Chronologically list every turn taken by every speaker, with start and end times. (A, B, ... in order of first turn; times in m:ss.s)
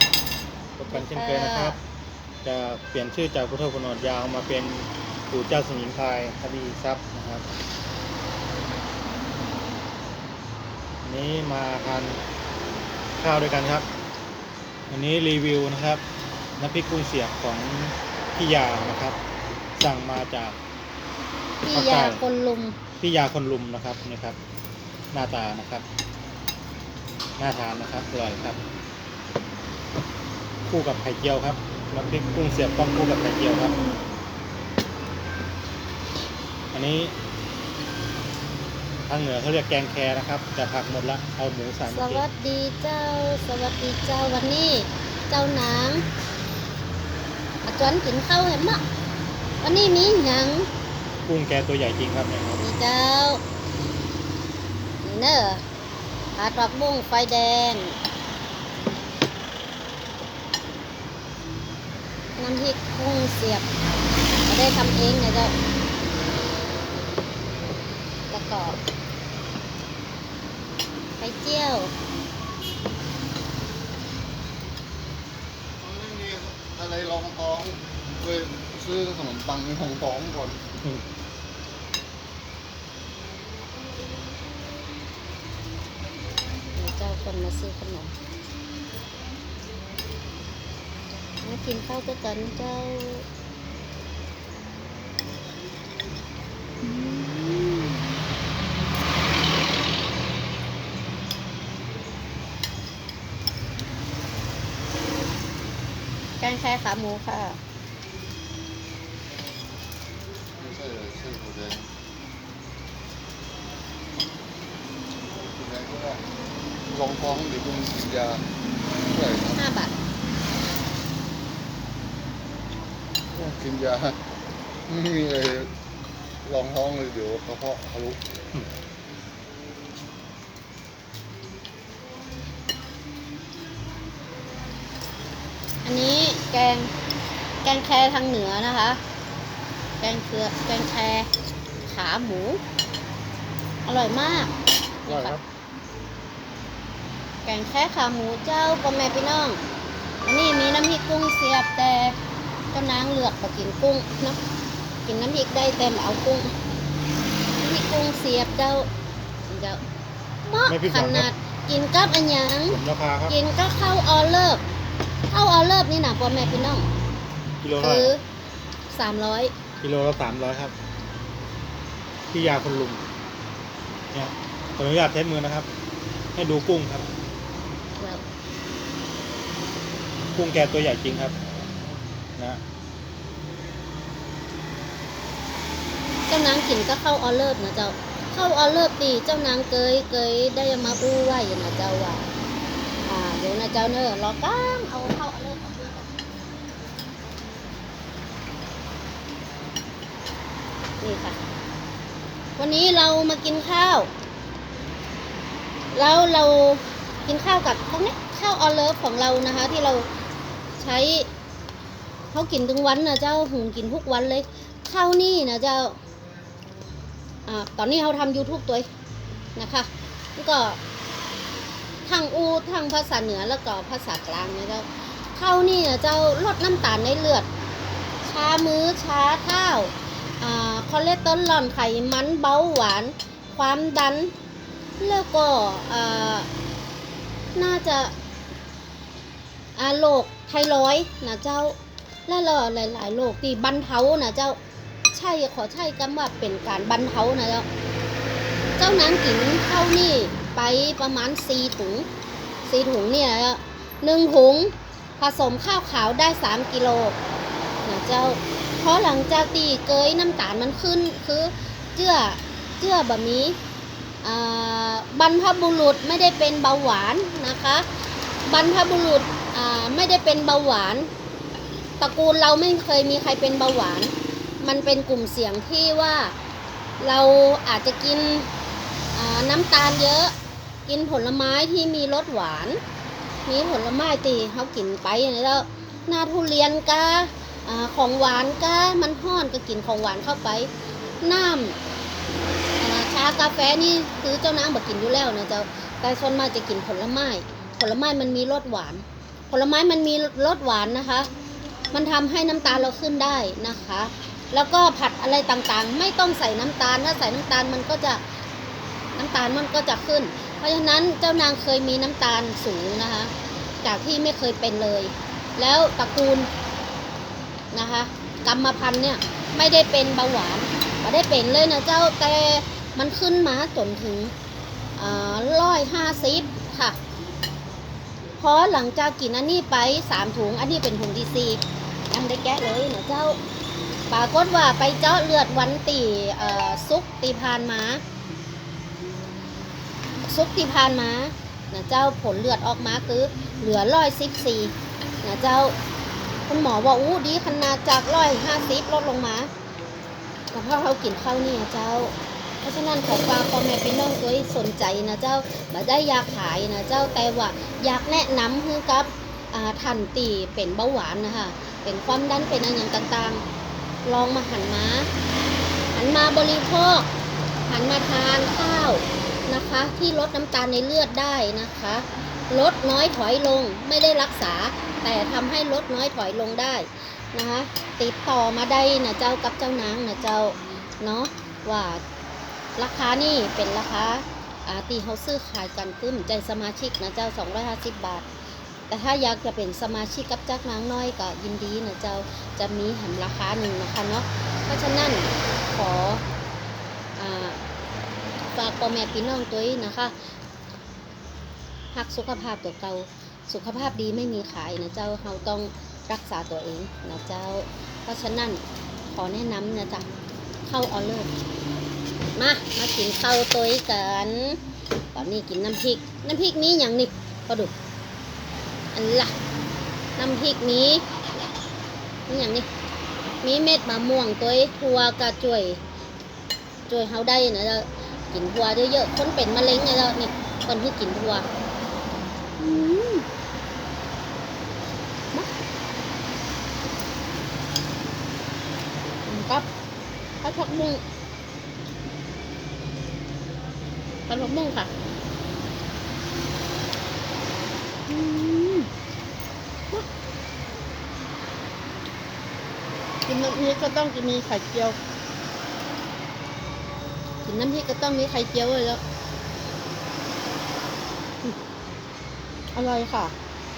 0:00.8-0:01.8 A
0:00.9-0:01.8 B
0:02.4-0:07.4 A
0:11.0-0:12.2 A
0:13.2-0:13.9 A
0:14.9-0:16.0 A
0:16.6-0:19.2 A
0:19.8-0:20.6 A
0:21.6-0:22.8 B
0:21.7-0:22.2 A
0:23.0-0:24.4 A
0:25.1-0:25.8 A
0:27.4-0:28.6 A
0:30.6-0:33.8 A
0:36.7-0:37.1 A
0:39.1-0:42.2 A
0:41.9-0:46.0 B
0:47.7-0:48.8 B
0:49.6-0:50.7 B
0:51.3-0:52.6 A
0:52.6-0:53.4 B
0:55.0-0:55.6 B
0:56.4-0:58.0 B
1:02.4-1:03.7 B
1:04.5-1:05.5 B
1:08.3-1:08.8 B
1:11.2-1:11.9 B
1:16.2-1:17.7 C
1:18.2-1:20.6 C
1:26.8-1:28.1 B
1:31.4-1:33.2 B
1:36.8-1:38.0 B
1:46.4-1:47.6 B
1:50.8-1:51.8 C
1:57.0-1:58.3 C
1:59.6-1:59.9 B
2:03.4-2:04.0 C
2:05.0-2:05.5 C
2:06.5-2:08.2 C
2:15.8-2:16.9 B
2:17.6-2:19.0 B
2:20.0-2:21.3 B
2:21.9-2:22.6 B
2:23.8-2:25.4 B
2:25.1-2:25.4 A
2:27.5-2:29.6 B
2:30.2-2:32.2 B
2:32.7-2:34.4 B
2:35.1-2:36.5 B
2:37.6-2:38.9 B
2:39.5-2:39.8 B
2:40.4-2:44.6 B
2:40.7-2:41.3 A
2:42.7-2:43.4 A
2:45.3-2:46.9 B
2:47.6-2:48.1 A
2:47.8-2:48.2 B
2:48.9-2:49.5 B
2:49.8-2:50.7 A
2:52.3-2:53.0 A
2:54.1-2:55.7 A
2:56.4-2:57.1 A
3:00.4-3:01.4 A
3:06.3-3:12.3 B
3:13.1-3:16.1 B
3:21.0-3:21.4 B
3:22.6-3:24.1 B
3:25.9-3:30.1 B
3:30.8-3:31.3 B
3:32.3-3:36.0 B
3:37.5-3:38.9 B
3:39.6-3:40.8 B
3:42.1-3:47.5 B
3:48.2-3:54.3 B
3:55.0-3:56.5 B
3:57.6-3:58.1 B
3:59.8-4:01.8 B
4:02.3-4:04.6 B
4:05.1-4:07.7 B
4:08.8-4:12.1 B
4:12.7-4:17.2 B
4:17.8-4:23.6 B
4:24.2-4:27.9 B
4:28.5-4:31.1 B
4:32.0-4:36.4 B
4:37.0-4:38.5 B
4:39.1-4:40.3 B
4:40.9-4:42.8 B
4:43.5-4:50.7 B
4:51.2-4:51.8 B
4:52.8-5:01.3 B
5:01.9-5:08.2 B
5:09.2-5:13.3 B
5:13.8-5:16.5 B
5:17.7-5:24.3 B
5:25.0-5:27.0 B
5:28.4-5:33.4 B
5:34.1-5:38.0 B
5:40.2-5:45.8 B
5:46.5-5:49.5 B
5:50.5-6:03.4 B
6:04.1-6:05.1 B
6:05.9-6:07.1 B
6:07.7-6:22.0 B
6:22.8-6:28.3 B
6:28.9-6:36.2 B
6:37.2-6:37.6 B
6:38.6-6:40.1 B
6:41.9-6:50.1 B
6:50.7-6:51.3 B
6:52.4-6:54.6 B
6:55.1-6:57.7 B
6:58.9-6:59.3 B
7:00.2-7:01.5 B
7:02.3-7:02.7 B
7:03.4-7:05.8 B
7:06.9-7:11.5 B
7:12.6-7:13.3 B
7:19.3-7:19.7 B
7:20.4-7:21.0 B
7:24.3-7:24.9 B
7:28.1-7:28.9 B
7:33.3-7:35.0 B
7:37.4-7:39.0 B
7:42.7-7:43.4 B